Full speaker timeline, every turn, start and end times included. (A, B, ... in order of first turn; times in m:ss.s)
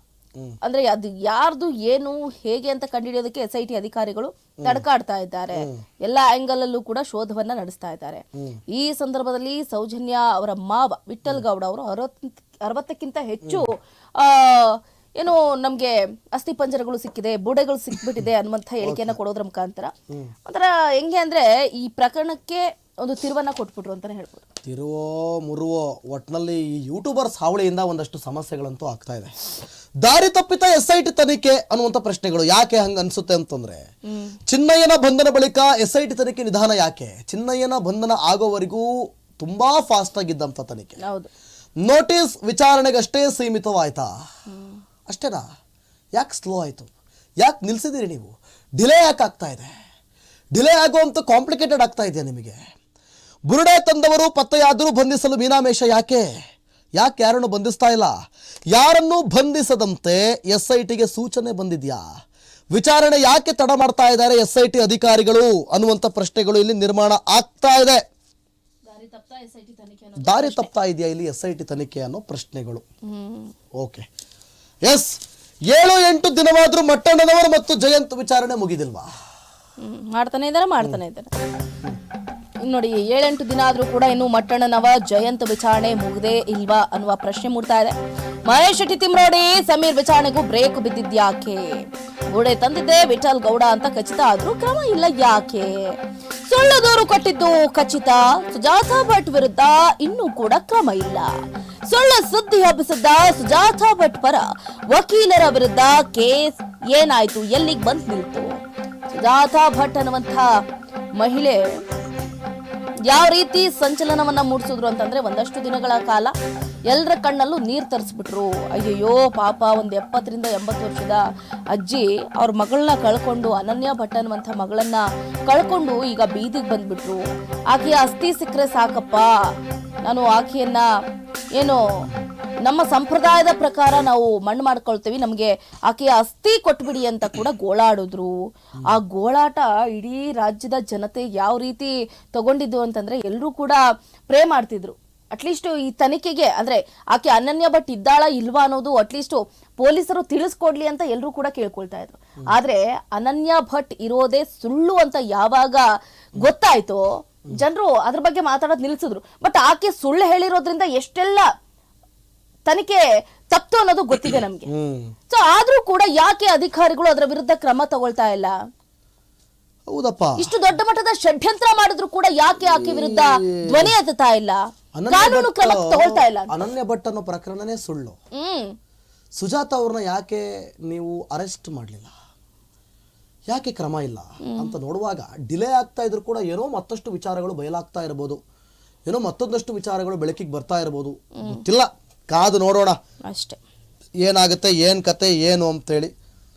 0:00.6-0:19.9 A
0:05.6-0:05.8 B
0:13.4-0:13.7 B
0:18.8-0:19.2 B
0:20.5-0:24.4 A
0:24.6-0:29.3 B
0:30.0-0:33.8 B
0:34.1-0:34.3 A
0:34.5-0:41.0 B
0:41.0-0:41.3 A
0:41.8-0:44.1 B
0:44.5-0:44.8 A
0:45.1-0:45.4 B
0:46.2-0:46.9 B
0:47.4-0:49.7 B
0:50.5-0:52.6 B
0:53.5-0:56.3 B
0:57.0-0:58.1 B
0:58.7-1:02.0 B
1:02.7-1:08.0 B
1:08.8-1:10.7 A
1:10.2-1:12.8 B
1:13.1-1:13.5 A
1:13.8-1:14.0 B
1:14.8-1:15.2 B
1:15.7-1:19.1 B
1:19.8-1:21.3 A
1:22.6-1:28.0 A
1:28.5-1:31.7 A
1:32.3-1:36.0 A
1:36.5-1:41.3 A
1:41.9-1:48.5 A
1:49.1-1:50.5 A
1:51.2-1:51.6 A
1:53.1-1:56.3 A
1:56.9-2:01.2 A
2:01.7-2:09.3 A
2:10.0-2:10.9 A
2:12.6-2:18.3 A
2:18.9-2:35.8 A
2:36.4-2:41.5 A
2:42.7-2:44.7 A
2:44.7-2:45.1 B
2:45.3-2:48.6 A
2:49.9-2:50.5 B
2:50.4-2:54.6 A
2:52.6-2:53.9 B
2:55.0-2:58.2 B
2:55.1-2:56.5 A
2:58.4-2:58.7 A
2:59.4-3:02.1 B
3:03.5-3:08.4 B
3:04.5-3:04.7 A
3:09.1-3:13.0 B
3:13.3-3:13.6 A
3:14.2-3:16.1 B